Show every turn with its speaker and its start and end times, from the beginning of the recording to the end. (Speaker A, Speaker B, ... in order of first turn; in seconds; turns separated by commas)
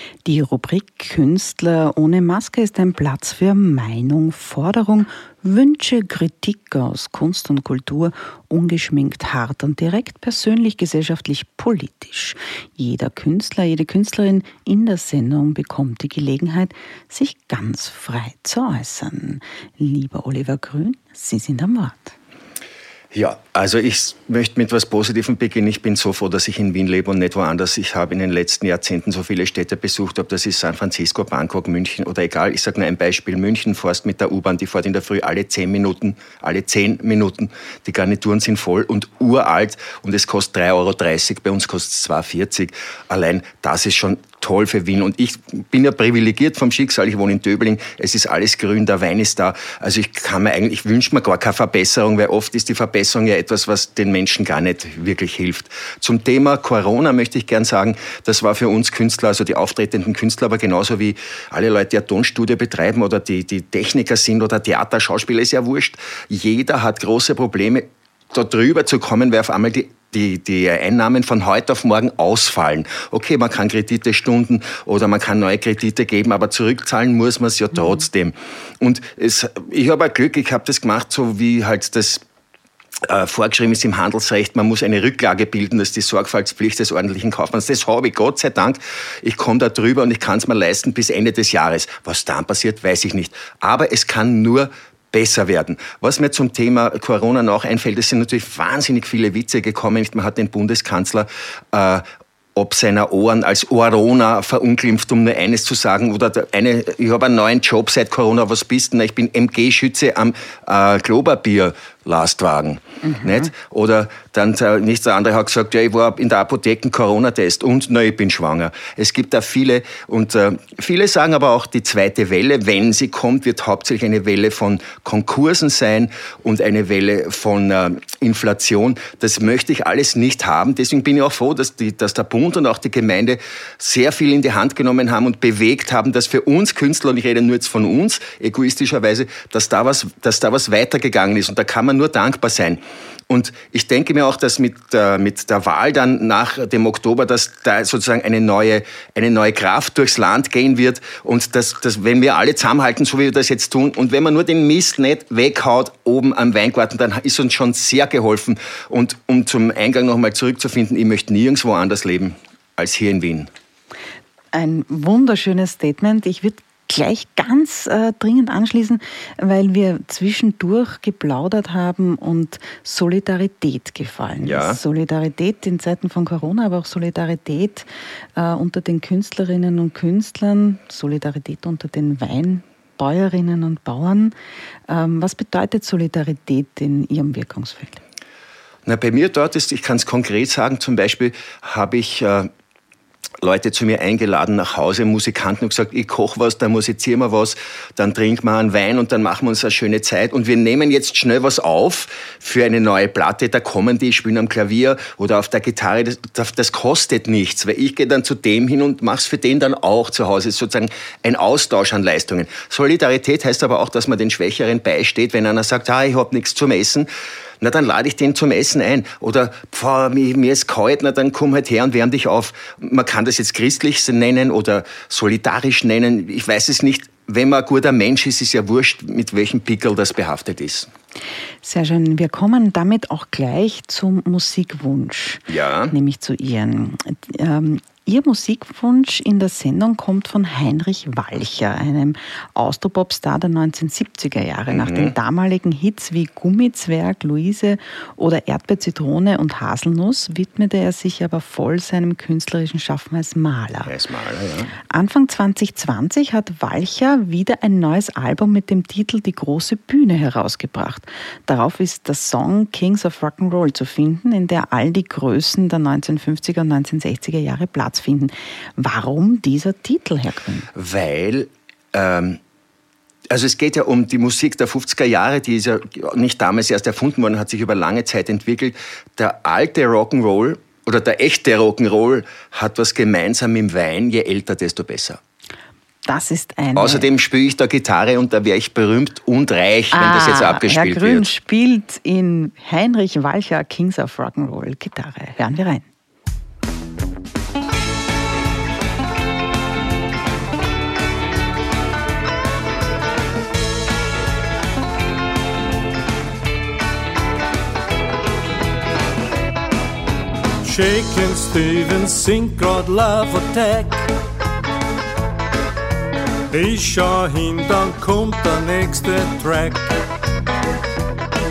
Speaker A: 0.2-22.1, Speaker B: 23.1-82.2, Speaker B: 83.0-102.0, Speaker B: 102.6-163.5, Speaker A: 164.5-177.9, Speaker B: 174.4-174.8, Speaker A: 178.4-184.3, Speaker A: 184.9-188.0, Speaker B: 188.9-192.5, Speaker B: 193.4-217.1, Speaker B: 217.6-230.9, Speaker A: 231.6-253.9, Speaker B: 235.5-235.9, Speaker B: 244.7-245.1, Speaker B: 253.8-254.8, Speaker A: 254.9-270.7, Speaker B: 270.7-272.4, Speaker B: 273.3-285.2, Speaker A: 286.1-287.1, Speaker B: 286.8-291.3, Speaker A: 289.9-295.9, Speaker C: 310.6-314.1, Speaker C: 316.5-319.9